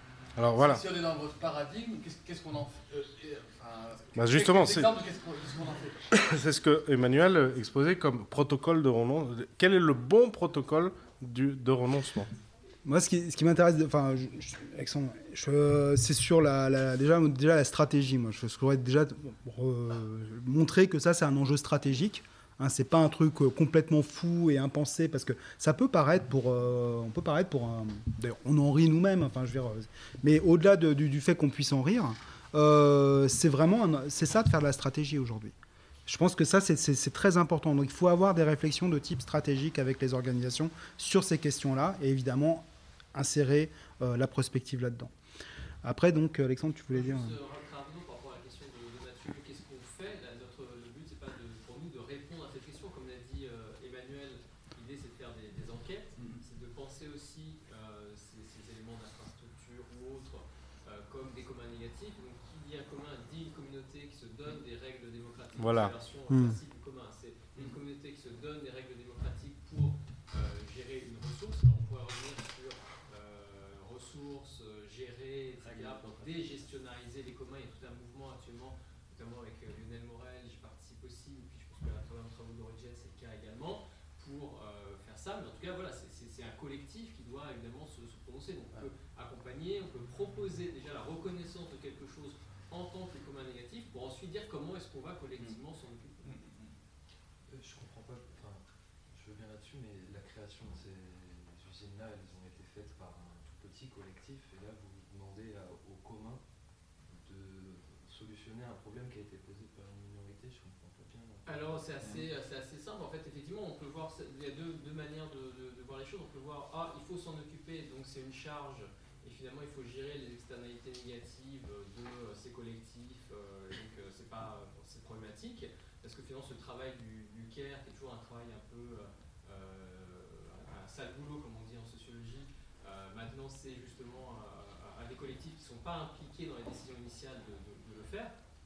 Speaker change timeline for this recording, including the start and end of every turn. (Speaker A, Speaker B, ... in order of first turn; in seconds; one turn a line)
Speaker A: 0.4-0.8
Speaker B: 0.6-6.1
Speaker A: 4.2-4.9
Speaker A: 6.1-12.3
Speaker C: 12.9-35.5
Speaker C: 36.1-45.1
Speaker C: 45.8-47.4
Speaker D: 46.9-96.4
Speaker A: 65.6-65.9
Speaker C: 66.3-66.6
Speaker E: 75.6-76.5
Speaker E: 97.5-106.4
Speaker E: 107.0-112.3
Speaker D: 111.5-138.3